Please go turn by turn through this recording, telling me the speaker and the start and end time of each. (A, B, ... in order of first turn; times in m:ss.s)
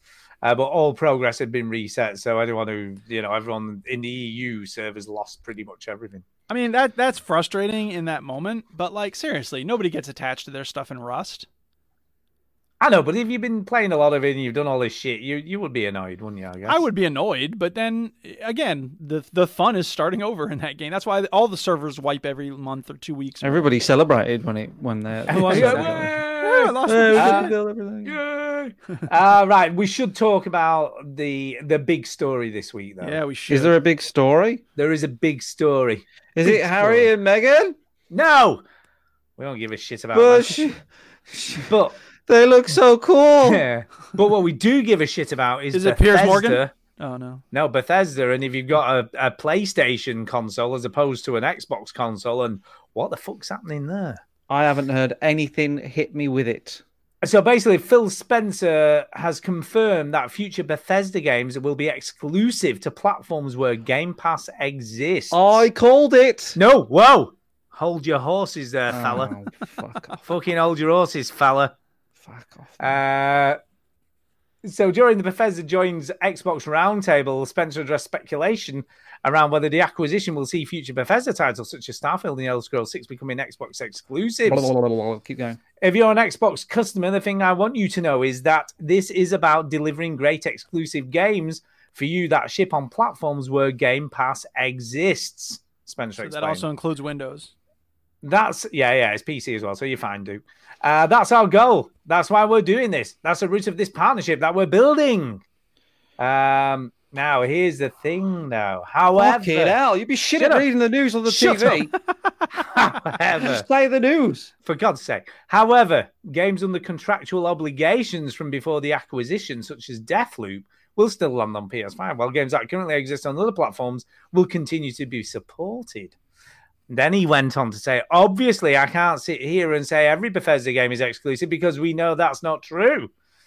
0:00.4-0:06.2 A
0:06.5-0:11.5 B
0:12.8-0:16.8 A
0:16.6-0:23.7 B
0:23.4-0:26.2 C
0:25.3-0:33.2 A
0:25.3-0:27.5 B
0:26.8-0:28.2 C
0:33.0-0:33.7 B
0:33.5-0:34.6 C
0:34.8-0:37.1 A
0:36.3-0:37.8 C
0:38.1-0:38.6 A
0:39.4-0:40.6 A
0:40.1-0:43.6 C
0:41.6-0:42.0 A
0:43.4-0:46.7 A
0:45.7-0:47.4 B
0:47.5-0:54.2 A
0:54.5-0:56.8 C
0:57.2-1:05.6 A
1:05.3-1:06.6 C
1:06.5-1:09.3 A
1:08.9-1:10.3 C
1:10.2-1:11.7 A
1:12.2-1:13.0 C
1:12.8-1:13.6 A
1:14.6-1:24.7 A
1:24.4-1:25.6 C
1:25.8-1:36.7 A
1:36.2-1:37.5 B
1:38.2-1:45.4 A
1:46.2-1:49.8 A
1:49.2-1:51.9 C
1:50.4-1:50.6 A
1:51.3-1:51.9 A
1:52.6-1:53.6 A
1:53.4-1:54.5 C
1:54.6-2:06.1 A
2:06.9-2:13.1 A